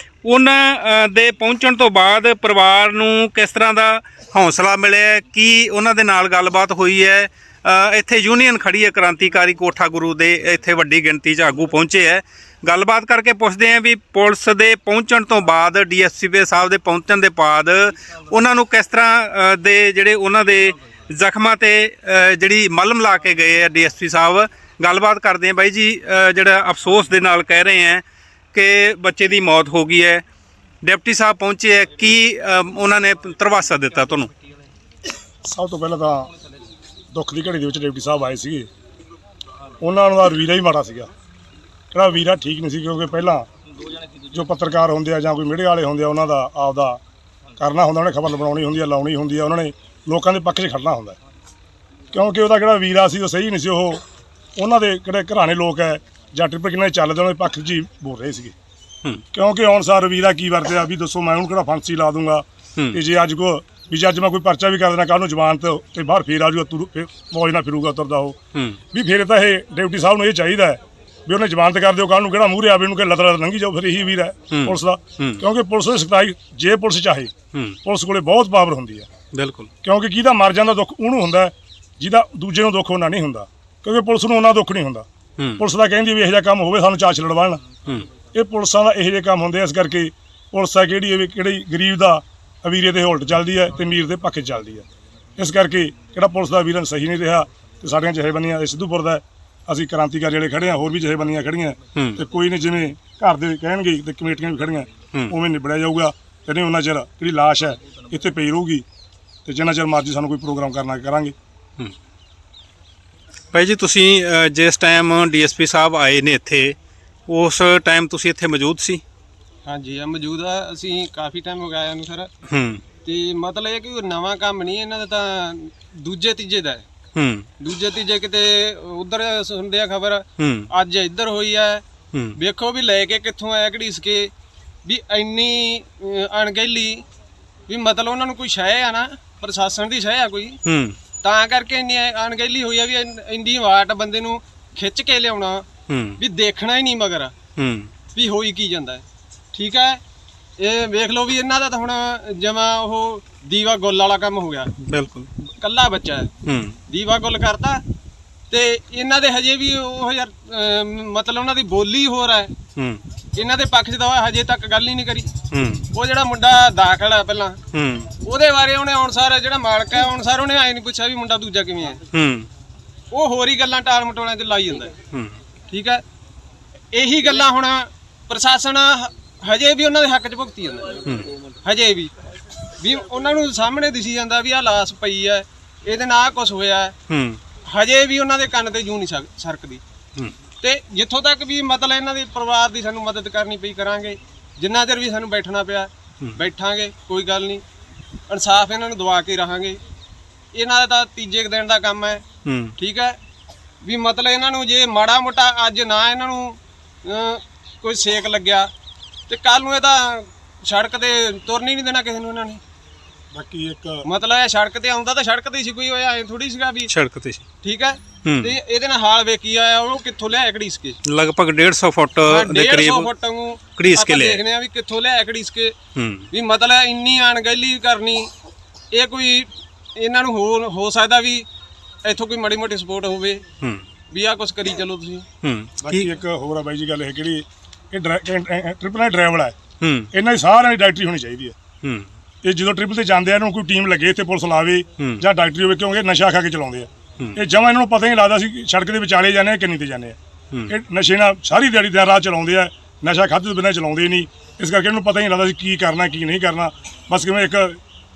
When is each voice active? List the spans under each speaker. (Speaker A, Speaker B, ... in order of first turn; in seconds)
Speaker A: 0.2-30.2, 30.8-34.3, 68.5-68.8, 74.5-75.4, 77.5-77.8, 79.3-79.7, 85.4-85.6, 101.9-102.2, 113.5-119.0, 122.5-122.8, 127.1-127.5, 130.4-130.7, 140.6-141.0, 145.9-146.2, 147.6-147.9, 154.8-155.3, 156.4-156.8, 162.7-163.0, 165.5-165.9, 167.7-168.1, 172.1-172.5, 175.1-175.3, 181.0-181.3, 187.1-187.4, 202.4-202.7, 216.8-217.4, 218.2-218.6, 221.0-223.1, 223.7-224.4, 225.9-226.3, 235.4-236.1, 239.8-240.1, 241.8-242.1
Speaker B: 35.4-36.3, 37.1-38.7, 39.8-41.1, 41.9-43.5, 44.3-47.0, 47.6-51.2, 52.1-54.0, 54.6-58.5, 59.3-68.3, 68.9-77.3, 77.8-79.1, 79.8-85.1, 85.6-87.6, 88.3-94.8, 95.4-108.8, 109.4-111.3, 213.3-214.1, 235.8-239.6, 240.1-241.6, 242.4-250.2, 250.7-257.8
Speaker C: 119.7-122.3, 123.0-126.8, 127.6-131.8, 132.4-134.3, 134.8-137.0, 137.7-140.6, 141.2-145.6, 146.2-147.3, 148.1-150.0, 150.6-154.7, 155.6-156.3, 156.9-157.8, 158.5-162.5, 163.3-165.4, 165.9-167.6, 168.2-172.0, 173.1-174.9, 175.7-176.0, 176.9-182.1, 182.7-186.9, 187.6-189.8, 190.6-197.6, 198.3-199.8, 200.5-202.2, 202.8-203.2, 203.8-208.7, 209.3-212.6, 214.1-216.9, 217.6-221.0, 222.2-225.7, 226.3-228.3, 228.9-231.5, 232.0-233.4, 234.1-235.2